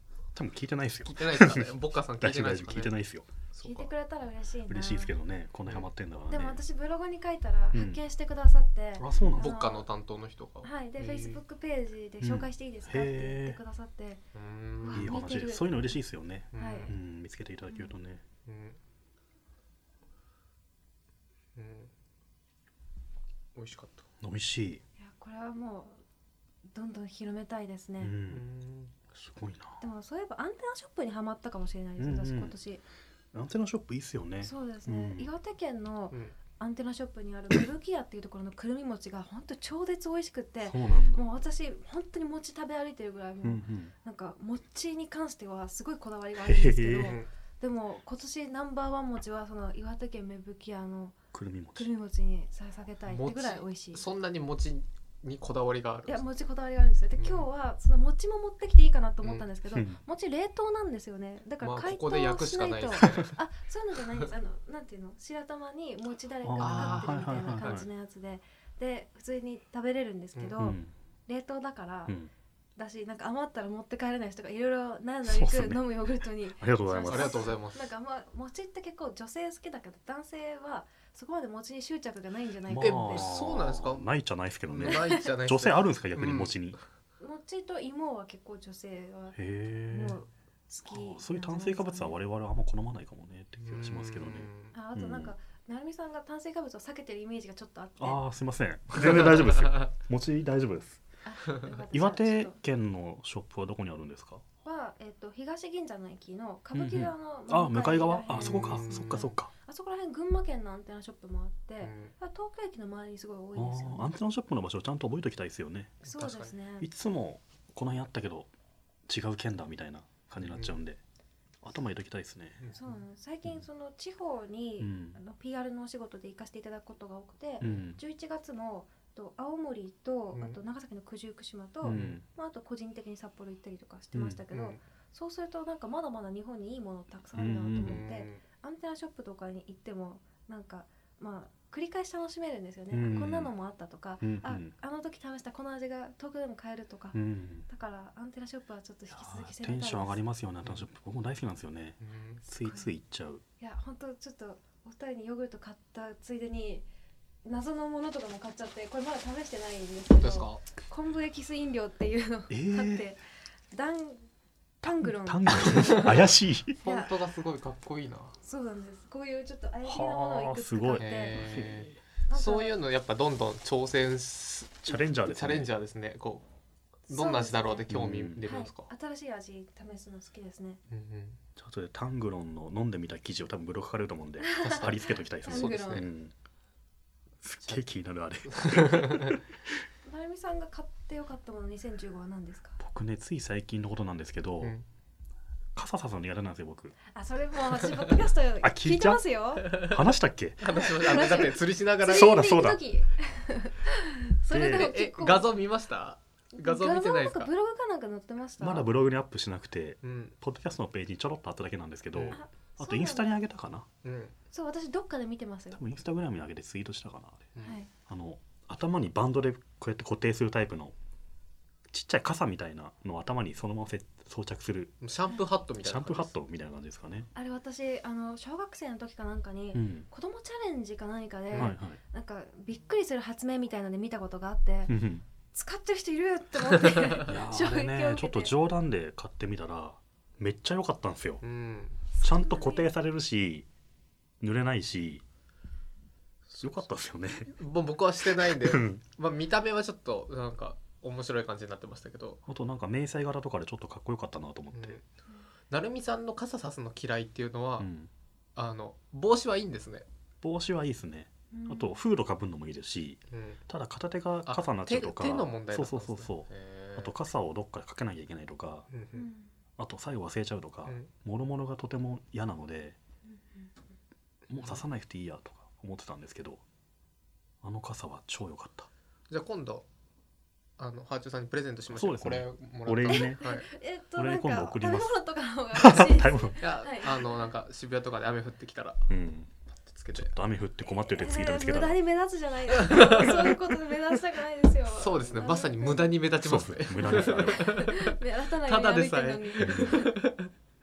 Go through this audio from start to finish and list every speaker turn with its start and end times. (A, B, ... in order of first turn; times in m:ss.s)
0:00.4-0:03.3 A
0:01.0-0:03.0 B
0:03.5-0:03.9 B
0:03.6-0:05.2 C
0:04.7-0:06.6 A
0:06.3-0:09.9 C
0:07.7-0:08.0 A
0:09.0-0:09.5 A
0:09.4-0:11.4 B
0:10.6-0:14.2 C
0:12.2-0:13.6 A
0:14.3-0:15.2 B
0:14.8-0:15.8 C
0:14.9-0:18.2 A
0:16.5-0:17.0 B
0:16.6-0:16.9 C
0:18.5-0:18.8 B
0:21.6-0:21.9 B
0:23.6-0:24.0 B
0:24.2-0:24.8 A
0:25.0-0:26.0 C
0:26.7-0:28.2 C
0:28.0-0:28.4 A
0:28.3-0:28.9 B
0:29.1-0:29.8 A
0:29.8-0:32.8 C
0:32.0-0:32.6 A
0:33.3-0:35.3 A
0:34.4-0:51.2 C
0:40.6-0:41.2 A
0:43.4-0:43.9 A
0:46.4-0:47.2 A
0:47.0-0:47.3 B
0:51.3-0:51.9 A
0:51.8-0:54.0 C
0:53.1-0:56.2 B
0:56.1-1:12.2 C
0:57.2-0:57.5 B
0:59.7-1:00.0 A
1:01.6-1:03.3 B
1:06.4-1:07.9 A
1:06.6-1:07.9 B
1:10.6-1:10.9 A
1:12.8-1:23.3 C
1:15.3-1:15.9 A
1:16.6-1:17.5 A
1:17.1-1:17.9 B
1:22.7-1:26.8 A
1:22.8-1:24.1 B
1:24.6-1:26.6 B
1:27.2-1:32.2 C
1:29.4-1:30.2 A
1:30.9-1:35.3 A
1:33.6-1:34.8 B
1:34.7-1:38.2 C
1:38.0-1:41.0 A
1:39.3-1:39.8 B
1:41.2-1:42.6 C
1:41.9-1:44.4 A
1:44.6-1:54.2 C
1:46.7-1:49.5 A
1:48.3-1:49.4 B
1:51.8-1:52.1 B
1:53.6-1:56.0 A
1:56.0-1:56.5 B
1:56.0-1:56.9 C
1:56.8-1:58.5 A
1:59.1-2:01.0 A
2:00.5-2:00.8 B
2:01.6-2:02.7 A
2:02.6-2:03.0 B
2:02.7-2:30.2 C
2:04.8-2:05.2 A
2:07.6-2:08.0 A
2:10.3-2:10.6 B
2:11.8-2:12.2 A
2:11.9-2:12.2 B
2:14.1-2:14.4 A
2:14.5-2:14.8 B
2:17.4-2:18.0 A
2:17.8-2:18.4 B
2:22.9-2:23.5 A
2:24.2-2:24.7 A
2:27.1-2:27.7 A
2:29.1-2:33.4 A
2:32.0-2:32.4 B
2:32.6-2:32.9 C
2:33.6-2:36.9 C
2:37.4-2:44.3 C
2:40.2-2:40.7 B
2:42.5-2:43.1 A
2:44.8-2:46.3 C
2:44.8-2:46.8 A
2:45.8-2:46.2 B
2:46.8-2:48.4 B
2:46.8-2:47.2 C
2:48.4-2:51.6 C
2:49.8-2:52.0 A
2:51.0-2:56.5 B
2:52.3-2:52.8 C
2:54.9-2:55.7 A
2:57.1-2:58.9 B
2:57.1-3:00.8 C
2:57.9-2:58.4 A
3:00.9-3:01.4 B
3:01.6-3:06.3 A
3:04.4-3:04.8 C
3:04.6-3:06.1 B
3:05.4-3:06.1 C
3:07.4-3:09.4 A
3:08.5-3:09.3 B
3:10.0-3:12.8 C
3:12.8-3:14.8 A
3:15.8-3:17.0 A
3:17.1-3:19.9 C
3:18.6-3:20.7 A
3:19.7-3:20.0 B
3:20.6-3:22.3 B
3:20.7-3:25.6 C
3:22.1-3:22.8 A
3:24.5-3:24.9 A
3:24.5-3:27.5 B
3:26.6-3:28.9 C
3:28.6-3:33.9 A
3:30.0-3:30.4 B
3:32.1-3:32.4 B
3:32.3-3:33.5 C
3:34.0-3:34.4 B
3:34.5-3:35.8 C
3:35.8-3:37.5 A
3:37.6-3:37.9 C
3:38.1-3:40.9 A
3:41.9-3:45.0 A
3:45.0-3:46.4 B
3:45.8-3:47.3 A
3:47.4-3:55.0 C
3:49.7-3:50.1 A
3:51.5-3:51.8 B
3:51.6-3:52.0 A
3:54.9-3:55.2 A
3:55.5-3:58.6 C
3:57.3-4:01.4 A
4:01.4-4:02.0 B
4:02.2-4:02.9 C
4:02.2-4:03.7 A
4:04.4-4:05.2 A
4:06.5-4:06.9 B
4:06.6-4:07.5 A
4:07.5-4:12.4 B
4:08.4-4:09.0 A
4:12.5-4:15.0 A
4:14.7-4:15.0 B
4:15.7-4:17.9 B
4:17.8-4:18.1 A
4:18.6-4:20.1 B
4:20.4-4:28.9 A
4:21.5-4:22.0 C
4:23.3-4:23.6 B
4:24.5-4:27.2 B
4:28.9-4:29.3 B
4:29.2-4:29.5 C
4:29.8-4:33.0 A
4:30.9-4:31.1 B
4:33.3-4:33.7 C
4:34.5-4:36.6 A
4:34.5-4:34.8 B
4:37.6-4:38.9 A
4:39.3-4:39.9 B
4:40.8-4:43.7 B
4:41.9-4:43.4 A
4:43.1-4:47.4 C
4:44.2-4:45.2 A
4:45.7-4:46.6 A
4:46.6-4:49.1 B
4:49.1-4:49.5 A
4:49.8-4:50.4 B
4:50.1-4:52.0 A
4:51.1-4:56.2 C
4:52.8-4:53.6 B
4:54.9-5:00.5 B
4:56.4-4:57.7 A
4:57.0-5:00.2 C
4:59.6-4:59.9 A